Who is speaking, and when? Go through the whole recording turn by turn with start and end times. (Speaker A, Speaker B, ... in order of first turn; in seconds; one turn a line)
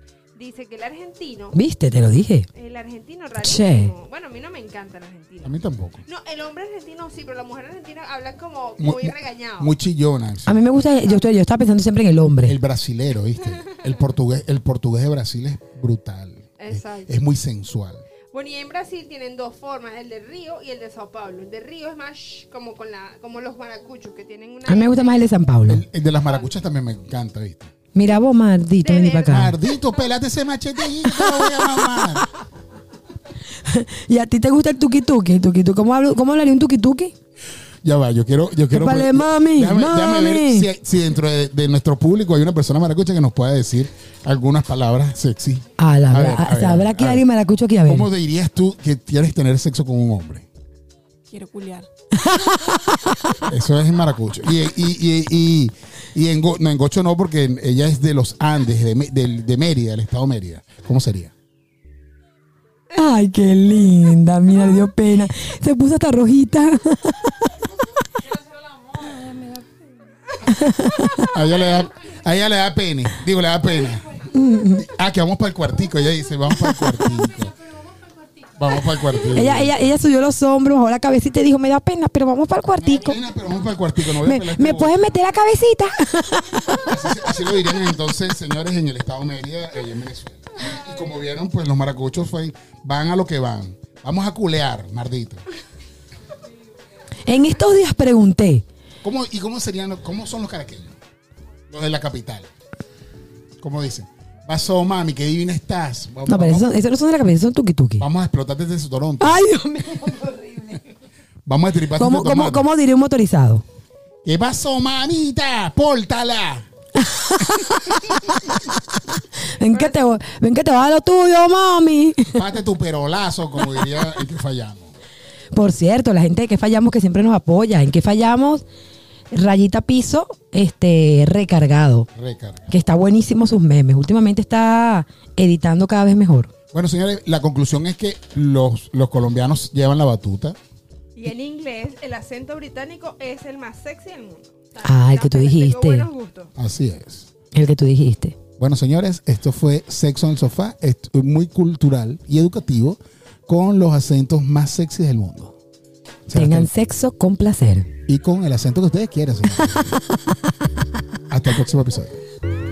Speaker A: 0.3-1.6
Speaker B: 1.5-2.5
Speaker A: 2.5-9.7
Speaker B: 3.4-3.9
Speaker C: 5.4-6.0
Speaker C: 8.8-10.7
Speaker B: 10.4-12.6
Speaker A: 10.8-11.2
Speaker C: 12.4-18.0
Speaker A: 16.6-17.1
Speaker A: 18.3-25.3
Speaker B: 24.6-25.8
Speaker C: 25.7-27.7
Speaker A: 26.1-26.5
Speaker B: 27.9-29.6
Speaker A: 28.8-29.4
Speaker C: 29.3-32.3
Speaker B: 31.0-31.8
Speaker B: 33.6-37.1
Speaker C: 37.8-47.2
Speaker B: 38.7-40.7
Speaker B: 45.8-48.1
Speaker C: 47.8-50.5
Speaker A: 51.3-51.9
Speaker B: 52.2-53.4
Speaker C: 53.5-61.3
Speaker B: 62.9-67.5
Speaker A: 69.2-69.6
Speaker B: 70.4-71.3
Speaker C: 71.3-74.2
Speaker B: 74.3-74.9
Speaker C: 74.8-77.5
Speaker C: 78.5-79.8
Speaker B: 79.2-83.2
Speaker C: 82.8-85.1
Speaker B: 84.1-86.9
Speaker C: 86.8-95.4
Speaker B: 97.2-98.6
Speaker C: 99.0-100.9
Speaker C: 101.7-102.5
Speaker C: 103.6-106.7
Speaker B: 106.3-108.0
Speaker C: 108.0-109.4
Speaker B: 109.2-110.8
Speaker C: 111.5-112.7
Speaker B: 111.9-113.6
Speaker C: 114.2-116.7
Speaker B: 117.1-118.5
Speaker B: 119.4-122.4
Speaker A: 119.6-120.0
Speaker C: 122.3-125.0
Speaker B: 125.5-128.6
Speaker B: 129.3-132.1
Speaker C: 132.1-132.7
Speaker B: 132.7-136.5
Speaker C: 136.7-140.6
Speaker A: 141.1-146.5
Speaker B: 144.8-146.1
Speaker C: 146.6-147.3
Speaker B: 147.5-148.4
Speaker C: 148.6-155.5
Speaker C: 156.3-156.7
Speaker B: 156.3-157.9
Speaker C: 158.1-159.9
Speaker C: 161.3-162.2